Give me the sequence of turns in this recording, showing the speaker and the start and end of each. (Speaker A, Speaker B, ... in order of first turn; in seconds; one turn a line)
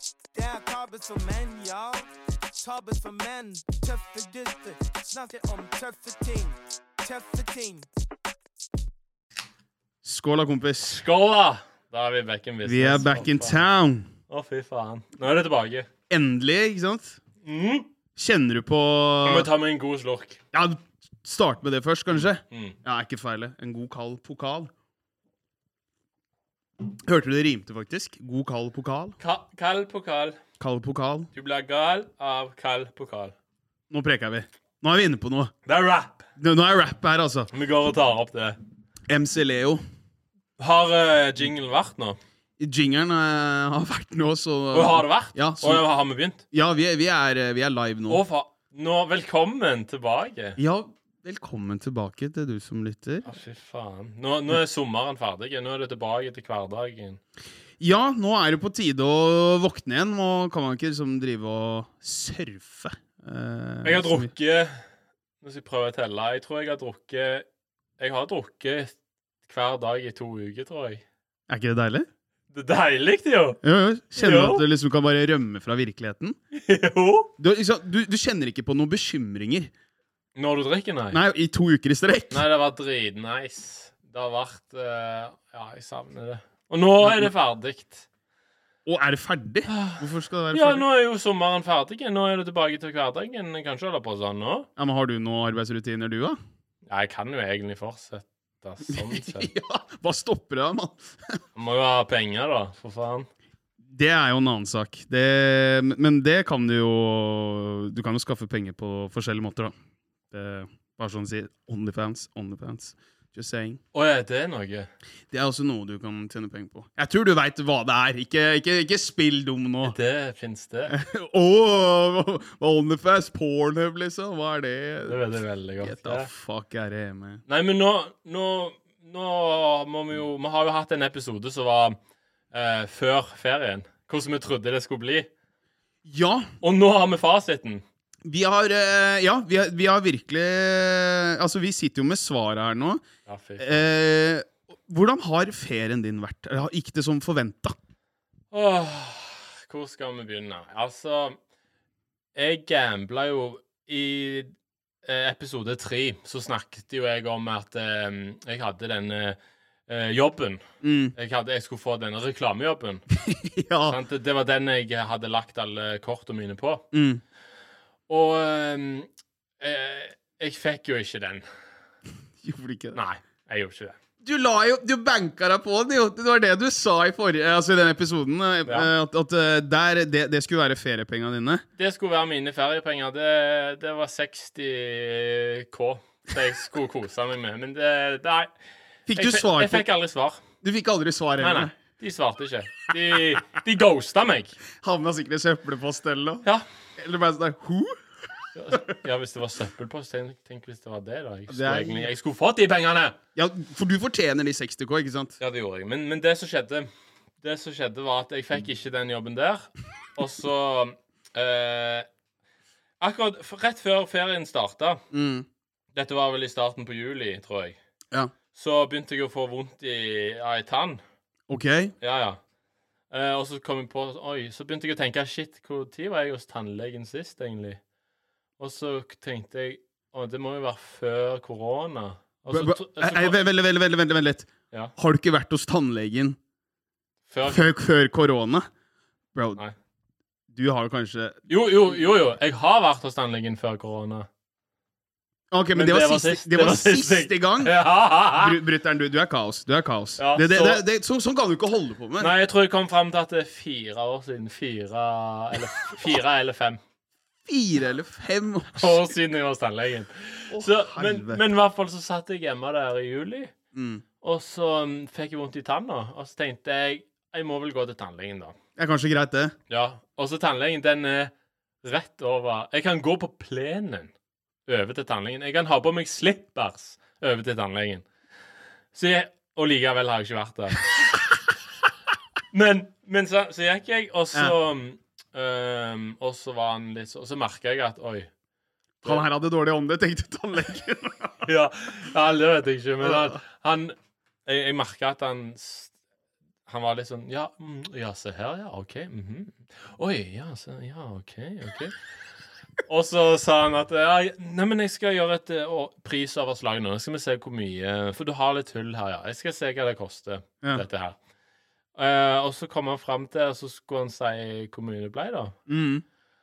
Speaker A: 0.3-2.1
Speaker A: 2.6-7.8
Speaker B: 10.0-11.0
Speaker C: 10.9-13.6
Speaker B: 12.6-14.1
Speaker C: 14.3-15.9
Speaker B: 16.1-17.2
Speaker C: 17.4-17.9
Speaker B: 18.1-19.5
Speaker C: 19.2-20.4
Speaker B: 20.5-24.7
Speaker C: 22.5-22.8
Speaker B: 27.0-29.2
Speaker C: 29.2-30.4
Speaker B: 30.6-31.3
Speaker C: 31.3-33.3
Speaker B: 33.9-35.5
Speaker C: 35.6-36.2
Speaker B: 36.4-37.5
Speaker C: 37.5-38.6
Speaker B: 39.1-39.8
Speaker C: 40.6-42.2
Speaker B: 42.6-45.8
Speaker C: 44.7-46.4
Speaker B: 46.5-48.2
Speaker C: 48.1-50.6
Speaker B: 50.6-53.2
Speaker C: 53.2-57.2
Speaker B: 57.8-64.3
Speaker C: 63.8-64.8
Speaker C: 65.4-67.4
Speaker C: 68.0-71.0
Speaker B: 71.5-72.1
Speaker C: 72.5-73.6
Speaker B: 73.6-76.4
Speaker C: 74.2-74.6
Speaker C: 76.5-77.3
Speaker B: 77.4-79.7
Speaker C: 80.3-81.2
Speaker B: 81.1-82.4
Speaker C: 82.3-88.0
Speaker B: 87.0-87.3
Speaker B: 88.8-90.8
Speaker C: 89.7-94.7
Speaker B: 94.8-96.4
Speaker C: 96.9-99.5
Speaker B: 98.9-101.4
Speaker C: 101.5-103.3
Speaker B: 103.8-109.7
Speaker B: 110.3-113.8
Speaker C: 113.9-114.9
Speaker B: 115.3-120.0
Speaker C: 119.8-121.0
Speaker B: 120.9-125.2
Speaker C: 125.0-126.3
Speaker B: 125.8-127.4
Speaker C: 127.5-131.9
Speaker C: 132.5-135.3
Speaker B: 136.0-136.5
Speaker C: 136.6-137.8
Speaker B: 138.2-143.0
Speaker C: 143.2-143.7
Speaker B: 143.6-147.8
Speaker C: 148.5-151.4
Speaker C: 152.3-154.5
Speaker C: 155.0-160.6
Speaker B: 160.8-161.1
Speaker C: 161.1-163.0
Speaker B: 163.2-164.0
Speaker C: 163.9-166.8
Speaker B: 166.9-167.2
Speaker C: 168.1-169.1
Speaker C: 169.6-171.4
Speaker B: 172.4-173.0
Speaker C: 172.9-173.9
Speaker B: 174.2-181.6
Speaker C: 181.8-188.5
Speaker B: 189.1-189.8
Speaker C: 189.1-190.4
Speaker B: 190.6-191.7
Speaker C: 191.4-194.6
Speaker B: 194.8-196.4
Speaker B: 197.0-198.0
Speaker C: 198.5-203.2
Speaker B: 201.5-202.1
Speaker B: 203.3-205.4
Speaker C: 205.4-206.9
Speaker C: 207.4-212.1
Speaker C: 213.0-215.0
Speaker B: 215.1-215.4
Speaker C: 215.9-217.8
Speaker C: 218.5-221.0
Speaker B: 221.5-221.9
Speaker C: 222.0-222.4
Speaker C: 223.1-227.8
Speaker C: 228.6-233.4
Speaker B: 232.5-236.4
Speaker C: 237.3-237.6
Speaker B: 237.4-238.7
Speaker B: 239.3-239.6
Speaker B: 240.5-241.4
Speaker C: 241.5-244.3
Speaker B: 245.5-247.7
Speaker C: 245.7-248.6
Speaker B: 248.3-252.3
Speaker C: 250.2-250.8
Speaker C: 252.2-256.8
Speaker B: 257.4-259.1
Speaker C: 258.7-263.5
Speaker B: 260.5-261.4
Speaker B: 263.7-264.0
Speaker C: 264.2-268.5
Speaker B: 268.8-269.5
Speaker C: 269.7-271.3
Speaker C: 271.8-274.1
Speaker C: 274.7-278.1
Speaker C: 278.9-280.9
Speaker C: 282.5-288.3
Speaker B: 289.0-291.5
Speaker C: 291.4-293.9
Speaker B: 293.0-293.4
Speaker C: 294.4-295.9
Speaker C: 296.6-301.9
Speaker C: 302.9-311.2
Speaker C: 311.9-315.5
Speaker B: 315.7-316.0